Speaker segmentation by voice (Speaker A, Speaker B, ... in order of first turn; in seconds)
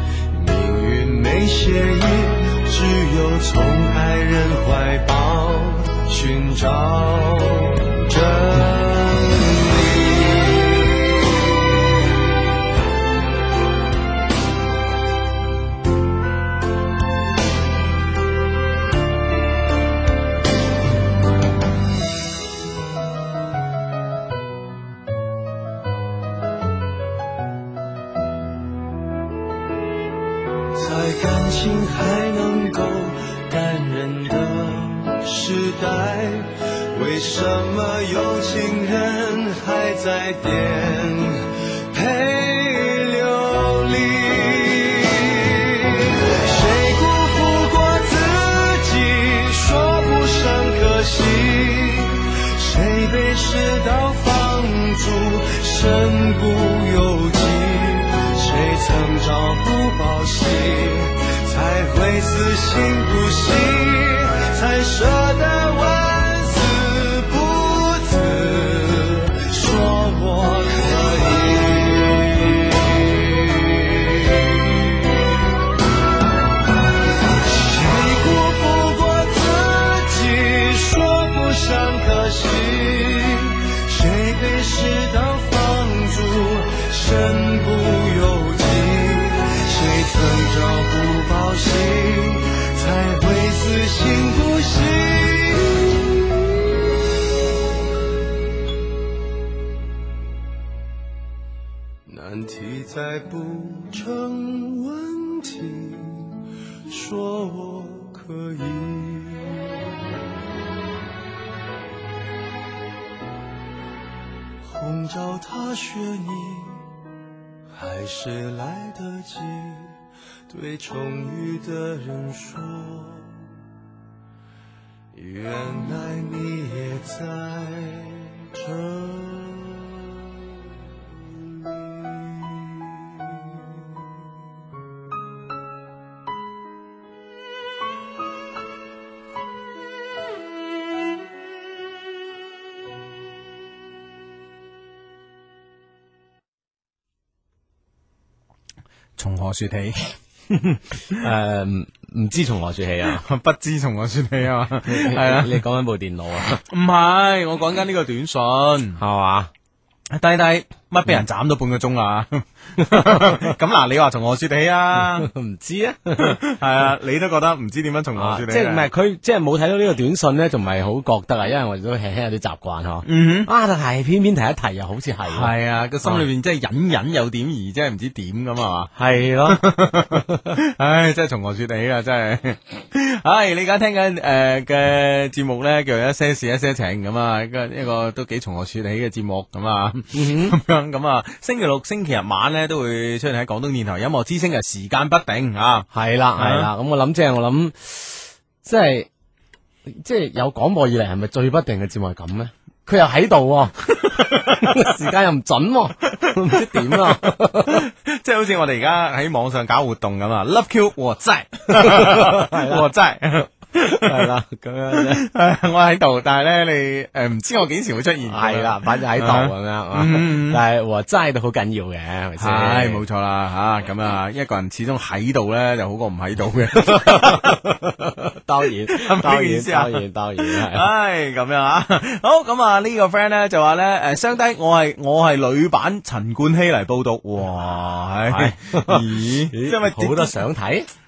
Speaker A: 0.3-11.5, 30.8-75.0, 77.5-96.1, 102.1-109.7, 114.6-116.9, 117.8-120.0, 120.5-123.4, 125.1-130.0, 131.6-132.8
Speaker B: 149.2-150.1, 153.1-155.6, 156.7-159.0, 160.1-165.3, 166.2-168.9, 173.1-173.5, 175.3-178.9, 179.5-196.7, 204.1-204.7, 206.2-207.0, 207.6-214.3, 214.9-220.6, 222.4-227.7, 228.9-240.4
Speaker C: 150.5-153.2, 154.9-156.6, 159.0-159.5, 162.9-163.4, 164.9-166.4, 168.2-175.5, 179.0-179.6, 180.1-180.4, 190.1-190.6, 195.9-199.1, 199.9-207.8, 211.7-212.9, 213.8-215.2, 218.2-223.0, 226.8-230.9, 237.5-240.9